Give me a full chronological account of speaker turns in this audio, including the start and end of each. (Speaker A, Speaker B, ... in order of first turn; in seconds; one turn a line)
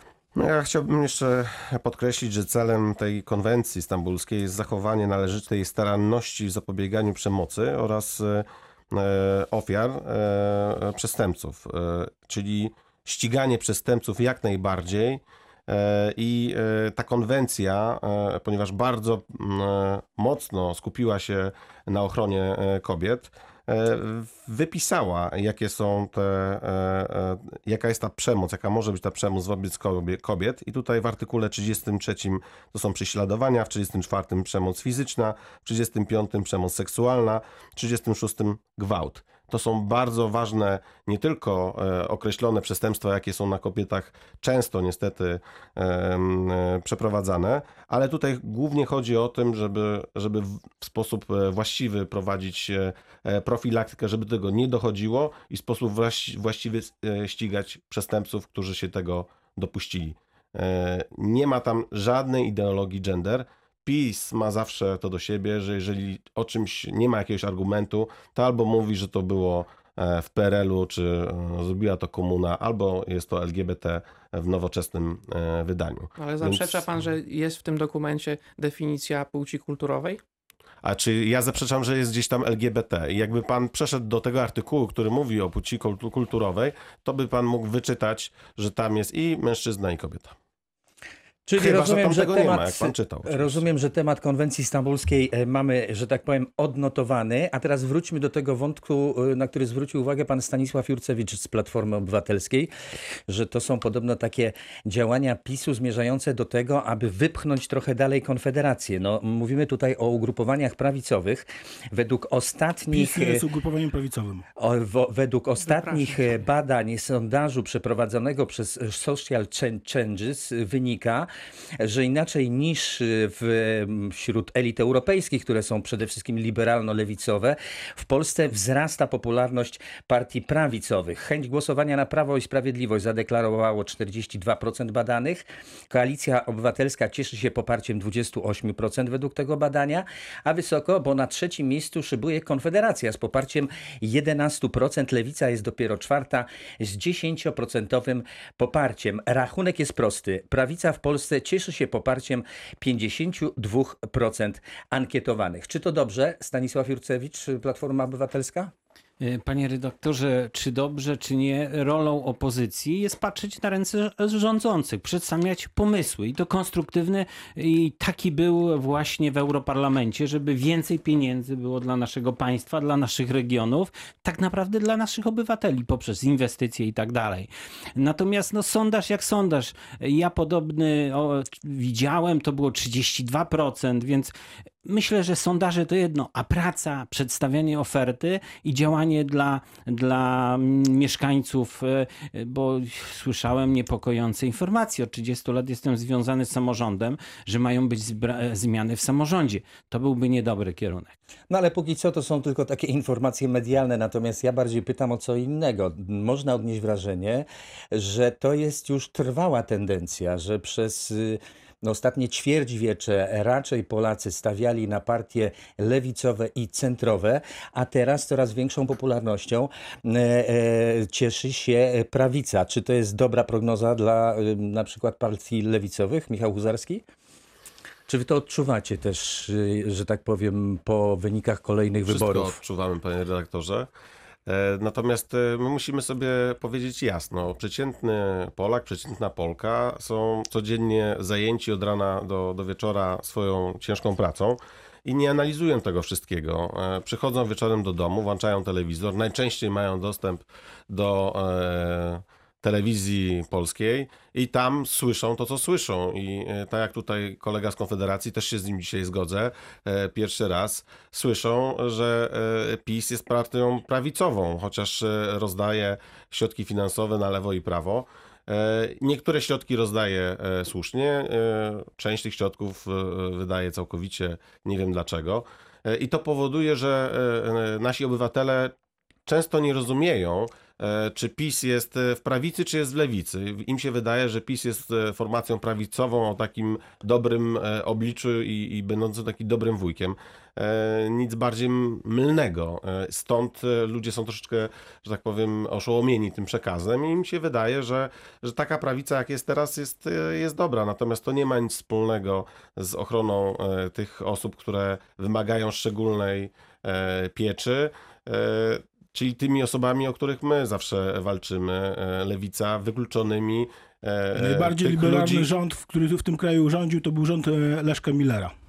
Speaker A: 0.3-77.0
Speaker B: 76.2-80.2
Speaker A: 80.8-90.3
Speaker C: 91.5-102.7
Speaker A: 91.6-93.6
Speaker C: 103.3-113.4
Speaker D: 112.9-114.5
Speaker C: 114.6-158.7
Speaker B: 115.6-116.5
Speaker E: 159.2-184.3
Speaker E: 184.8-201.1
Speaker C: 201.5-227.0
Speaker C: 228.1-232.6
Speaker A: 232.1-233.9
Speaker A: 234.4-278.7
Speaker A: 279.2-315.5
Speaker D: 314.3-318.5